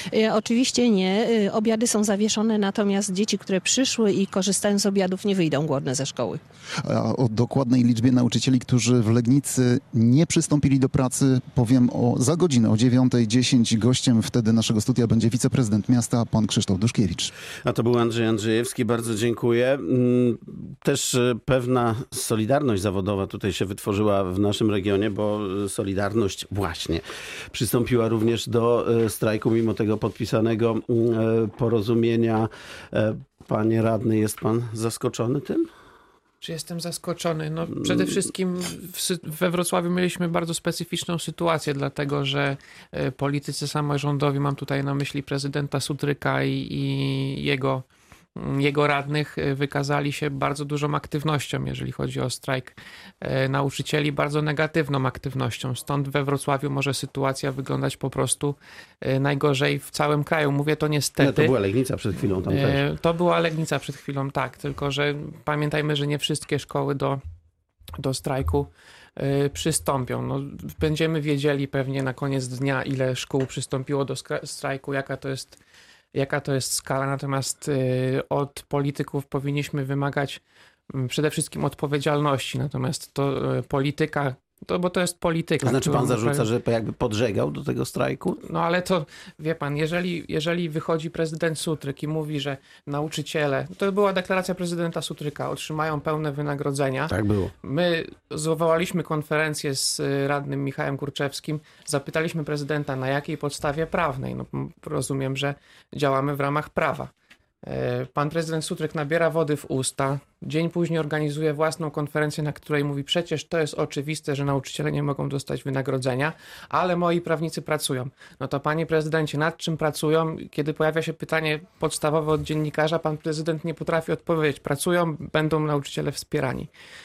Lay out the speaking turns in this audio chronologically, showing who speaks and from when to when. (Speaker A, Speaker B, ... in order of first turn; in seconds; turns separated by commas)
Speaker A: 0.1-6.4, Speaker B: 6.8-17.3, Speaker C: 17.6-35.7, Speaker D: 36.4-47.8, Speaker D: 48.4-61.5, Speaker C: 61.2-62.8, Speaker D: 62.5-67.2, Speaker D: 68.0-75.6, Speaker D: 76.1-80.4, Speaker D: 80.9-86.5, Speaker C: 85.6-88.4, Speaker D: 88.4-107.1, Speaker C: 97.1-97.5, Speaker D: 107.7-126.7